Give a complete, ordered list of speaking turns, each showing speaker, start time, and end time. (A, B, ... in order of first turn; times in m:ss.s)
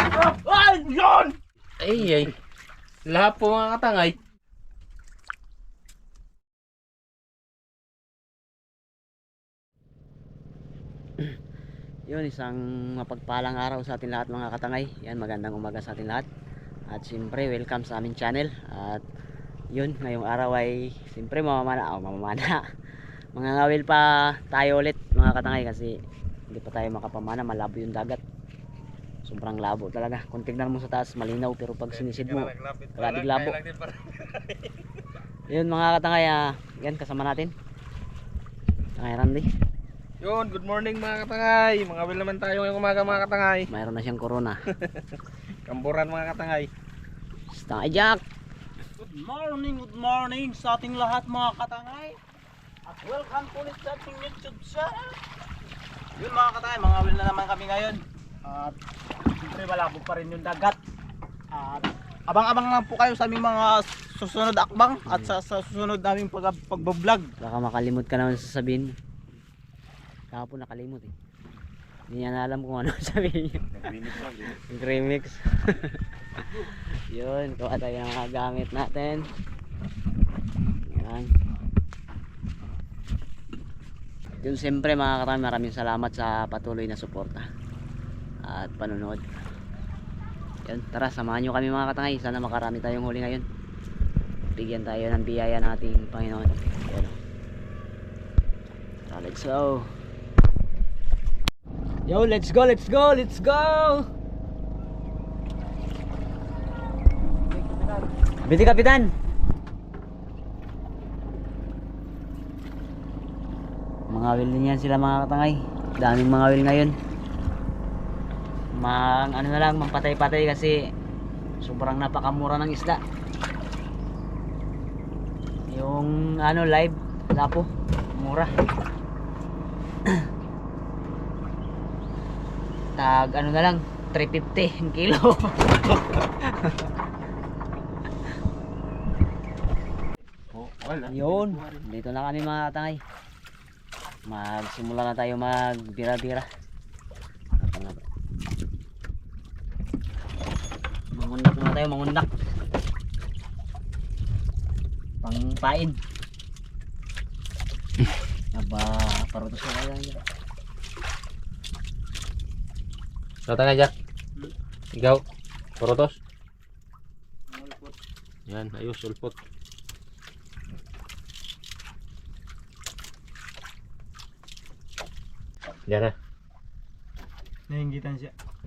0:00.3-0:00.6 A
0:01.8-0:02.4 B
0:03.0-0:04.2 B
0:12.1-0:16.3 C
0:16.9-0:19.0 C
0:19.7-0:22.6 C
0:23.3-0:28.2 C
0:29.2-0:33.6 C
0:31.9-0:34.9 B
0:35.5-0:37.5 C
0:39.0-0:39.5 C
0:40.2-0:43.7 B
0:43.7-0:44.6 C
0:44.7-0:46.7 B
0:47.5-0:48.2 C
0:49.0-0:52.2 A
0:52.8-0:55.2 A
0:56.2-0:58.8 A
0:59.4-1:00.8 A
1:01.5-1:07.3 A
1:07.4-1:09.0 C
1:10.3-1:11.1 C
1:12.1-1:13.9 C
1:13.7-1:14.6 B
1:14.4-1:19.2 C
1:20.8-1:21.3 C
1:24.4-1:27.5 C
1:28.4-1:29.2 C
1:30.6-1:33.4 C
1:34.6-1:37.2 C
1:39.1-1:39.9 C
1:42.0-1:44.1 C
1:47.6-1:48.0 A
1:48.4-1:49.1 C
1:54.1-1:56.9 C
1:58.8-2:00.8 C
2:01.6-2:03.0 C
2:05.7-2:08.6 C
2:13.0-2:16.8 C
2:20.5-2:21.8 B
2:21.1-2:23.0 C
2:24.3-2:26.5 C
2:27.6-2:28.0 C
2:31.1-2:32.3 C
2:35.2-2:36.0 C
2:38.5-2:40.2 C
2:43.5-2:43.9 B
2:44.9-2:45.2 B
2:45.8-2:46.2 B
2:47.5-2:48.0 A
2:48.5-2:49.4 B
2:55.9-2:56.1 B
2:57.7-2:58.3 A